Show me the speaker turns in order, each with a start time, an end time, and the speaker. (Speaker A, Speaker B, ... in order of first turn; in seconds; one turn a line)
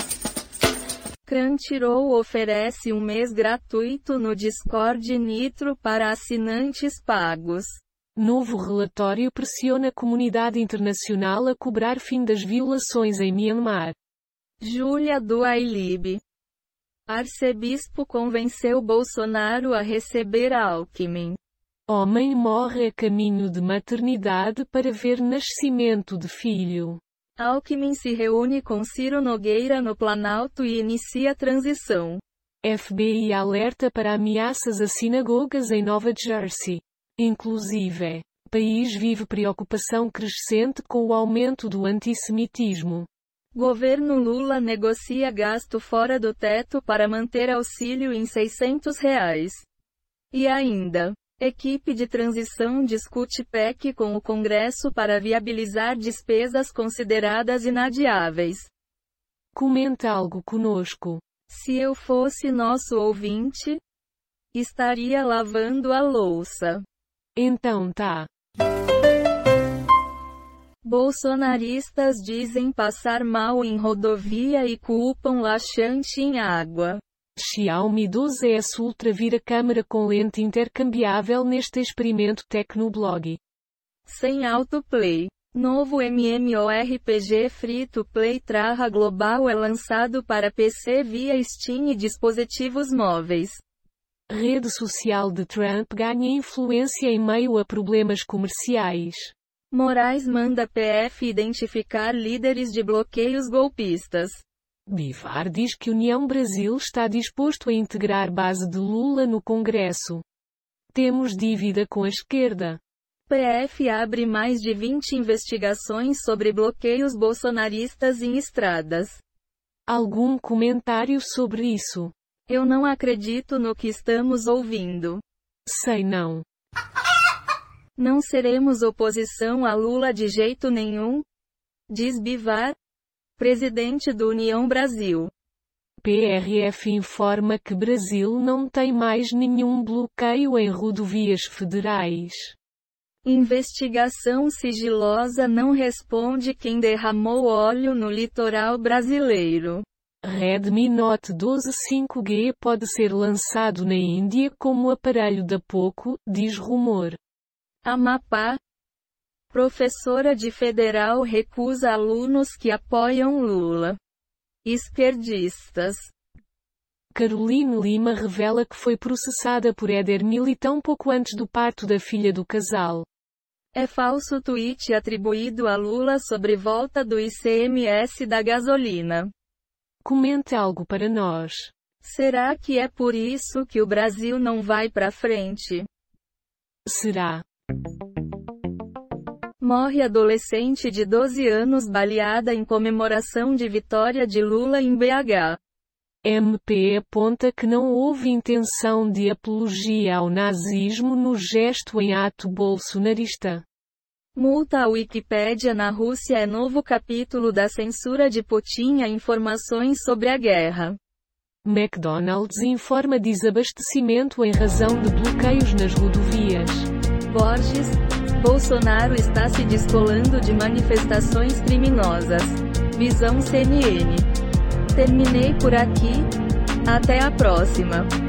Speaker A: 1.3-7.8
Speaker B: 8.2-14.0
Speaker A: 14.6-16.2
Speaker A: 17.1-21.4
Speaker B: 21.9-27.0
Speaker A: 27.4-32.2
Speaker B: 32.6-43.1
Speaker A: 43.5-49.6
Speaker A: 50.3-58.7
Speaker B: 59.5-61.2
Speaker A: 61.5-63.8
Speaker A: 64.5-66.8
Speaker B: 67.4-68.3
Speaker A: 70.8-77.0
Speaker B: 77.4-83.4
Speaker A: 84.1-93.6
Speaker B: 94.3-99.3
Speaker A: 99.7-104.4
Speaker B: 104.9-110.2
Speaker B: 110.9-112.8
Speaker A: 113.3-119.2
Speaker B: 119.9-122.1
Speaker A: 122.5-125.2
Speaker B: 125.7-126.5
Speaker A: 128.0-131.2
Speaker A: 131.9-132.8
Speaker A: 133.4-135.3
Speaker B: 136.0-142.6
Speaker A: 143.2-149.8
Speaker B: 150.2-157.2
Speaker A: 157.8-158.6
Speaker A: 159.5-164.0
Speaker A: 164.7-166.1
Speaker B: 167.1-173.1
Speaker A: 173.8-179.3
Speaker B: 180.0-181.7
Speaker A: 182.0-185.9
Speaker B: 186.9-187.4
Speaker A: 189.6-195.6
Speaker B: 196.2-203.7
Speaker A: 204.3-211.0
Speaker B: 211.7-216.9
Speaker A: 217.3-224.3
Speaker A: 224.9-226.3
Speaker A: 226.8-228.1